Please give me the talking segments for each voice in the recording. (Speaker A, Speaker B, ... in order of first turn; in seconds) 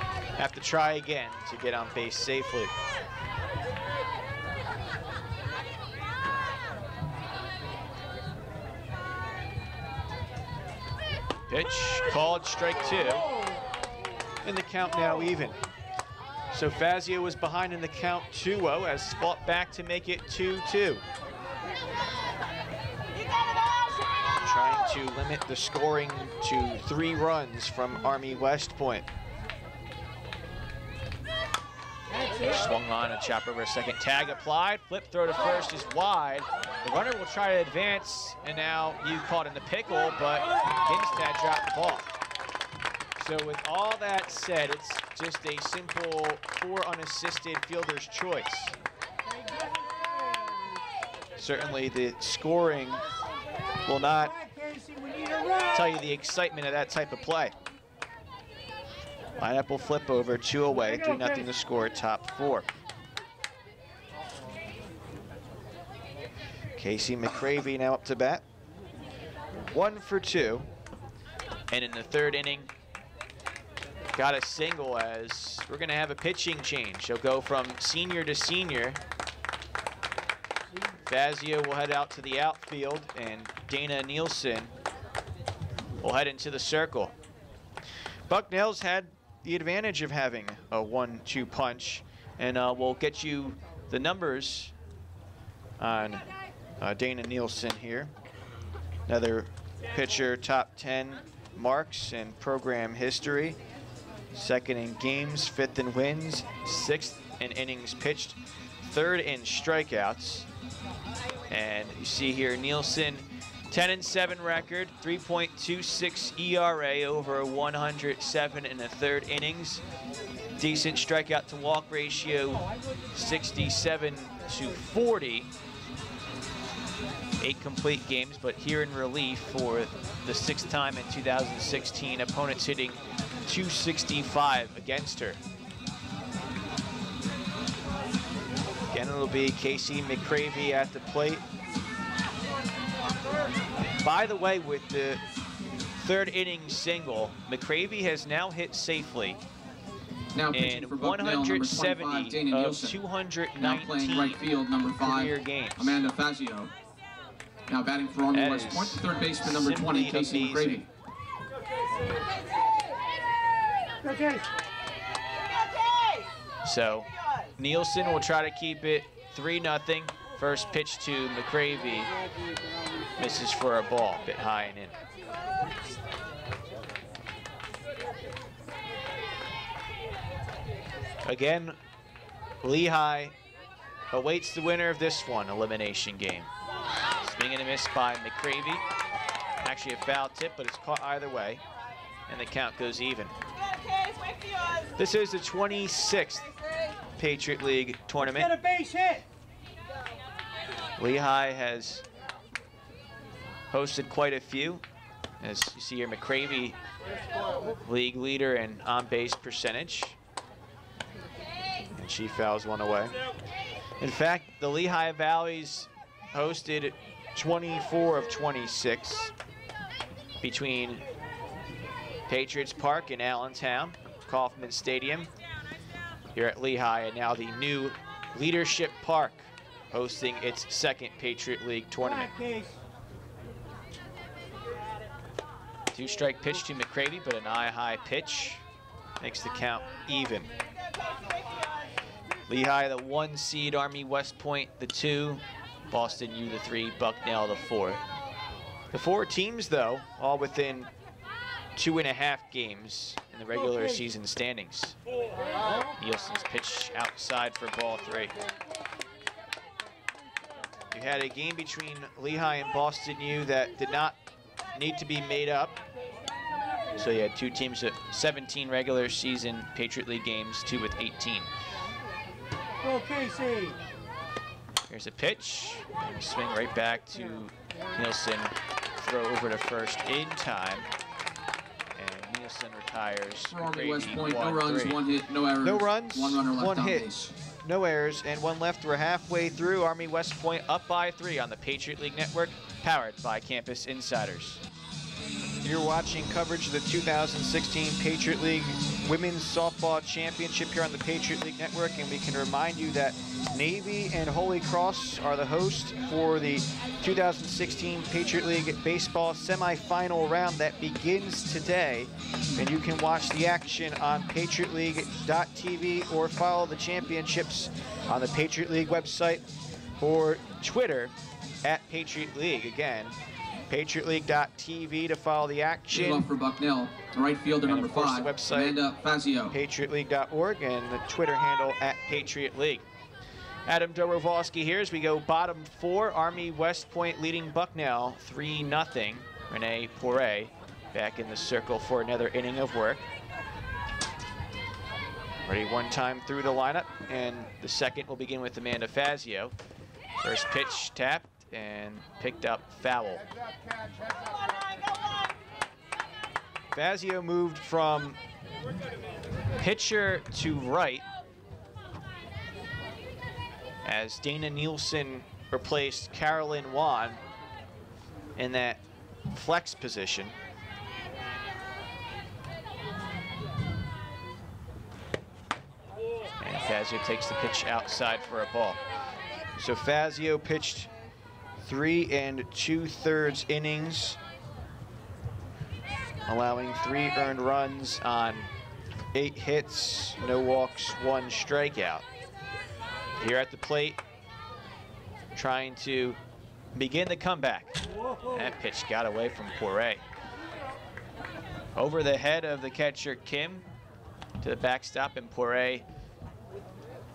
Speaker A: 0.4-2.7, 11.5-13.3, 14.4-15.6, 16.5-21.0, 24.4-29.1, 32.4-42.1, 43.2-48.7, 51.4-53.0, 53.8-54.3, 55.7-57.5, 59.4-62.7, 66.8-68.4, 69.7-70.7, 71.7-72.7, 74.1-79.0, 81.1-84.7, 86.0-87.1, 88.3-94.7, 95.8-96.2, 96.8-98.1, 99.1-103.6, 104.3-110.5, 111.5-119.8, 120.6-125.5, 127.4-135.4, 138.9-141.4, 144.0-145.2, 146.0-149.4, 150.5-156.0, 158.3-160.8, 166.6-172.1, 173.2-175.0, 181.2-181.8, 182.6-183.3, 184.1-186.5, 187.2-188.8, 189.6-191.6, 192.3-193.3, 195.0-196.5, 197.2-198.5, 201.0-202.0, 203.7-204.8, 205.4-206.8, 207.8-210.2, 211.9-213.1, 214.0-219.3, 220.4-221.0, 222.3-225.3, 226.3-232.3, 235.9-238.6, 239.2-240.5, 242.5-248.0, 248.9-250.9, 251.8-255.0, 256.0-258.3, 260.9-264.2, 264.8-265.8, 266.9-271.5, 274.9-280.9, 281.9-285.0, 285.6-287.1, 287.6-294.6, 295.6-319.4, 320.0-323.1, 323.7-326.3, 327.6-328.8, 329.5-332.9, 333.7-343.1, 345.4-349.5, 350.2-353.2, 356.7-358.2, 359.6-361.1, 363.8-367.2, 368.4-370.3, 376.4-378.8, 379.6-380.9, 381.6-384.2, 386.3-388.5, 389.1-392.0, 393.2-394.0, 395.3-396.2, 396.7-397.8, 398.3-400.0, 401.8-403.6, 404.4-405.9
Speaker B: 49.4-50.6, 54.1-55.8, 60.8-61.4, 164.0-164.4, 198.2-199.2, 232.0-232.8, 272.8-273.8
Speaker C: 150.3-153.0, 153.6-156.7, 157.7-160.9, 283.5-287.3, 325.9-329.6